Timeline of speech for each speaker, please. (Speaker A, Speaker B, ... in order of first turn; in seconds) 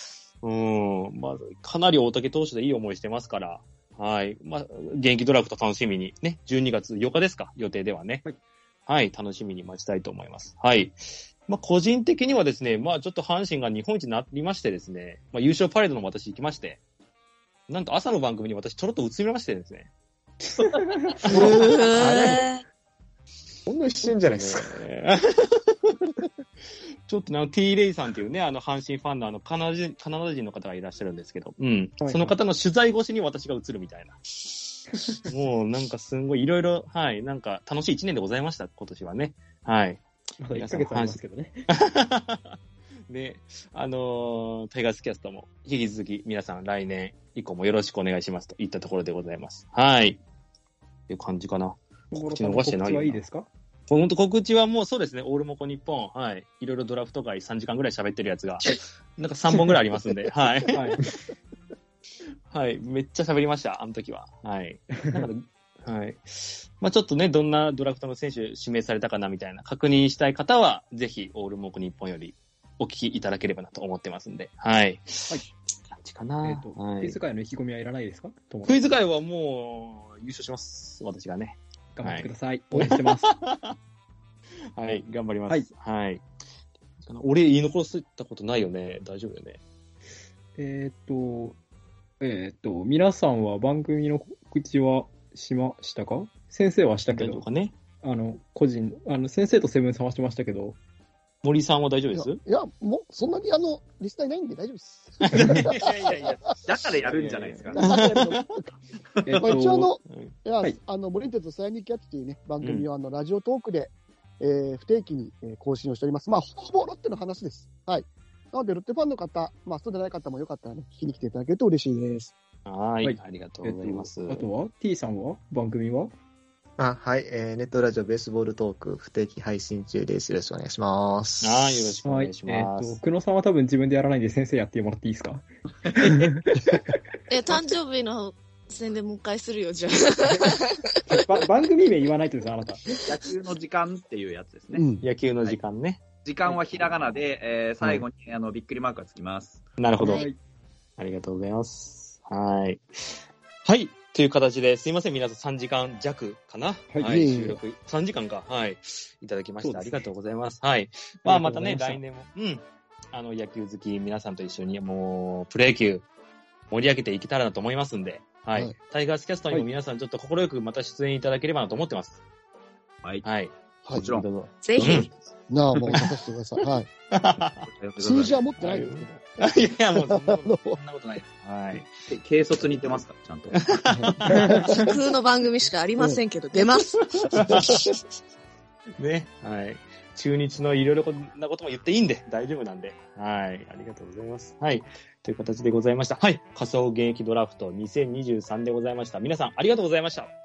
Speaker A: 0.4-8.2, 8.9-16.8, 17.7-19.9, 20.6-21.6, 24.3-26.1, 27.1-42.6, 43.1-50.2, 51.1-53.2, 53.9-60.8, 62.5-77.2, 78.7-83.8, 84.8-86.2, 87.0-89.6, 97.1-97.7, 101.4-102.4, 105.2-108.5, 109.5-110.3, 112.6-112.9, 122.7-124.5, 131.4-133.0, 145.0-146.0, 149.8-150.3, 151.0-166.1, 166.7-172.2, 173.2-175.2, 175.7-176.1, 177.1-177.7, 178.6-182.0, 182.6-183.0, 183.6-184.8, 187.0-188.0, 189.0-200.3
Speaker B: 21.3-22.5, 23.7-24.8, 126.8-132.0
Speaker C: 21.4-22.6, 137.3-140.9, 174.6-175.1, 184.7-187.1
Speaker D: 32.0-32.4, 40.4-41.6, 52.1-53.5, 60.7-61.0, 76.4-78.8, 82.0-83.3, 90.6-91.6, 92.2-97.4, 98.0-100.8, 109.2-109.9, 123.0-126.1, 132.1-137.0, 141.1-142.8, 150.0-150.4, 156.9-157.3, 159.6-160.1, 161.2-162.0, 184.3-184.7
Speaker E: 102.2-106.5, 107.8-108.7, 109.4-122.3, 144.8-145.0, 157.0-157.6, 175.5-176.9, 178.0-180.8, 183.9-184.9
Speaker F: 106.7-108.0, 143.1-144.8, 146.2-149.6, 173.9-174.3, 177.7-178.4, 182.1-183.7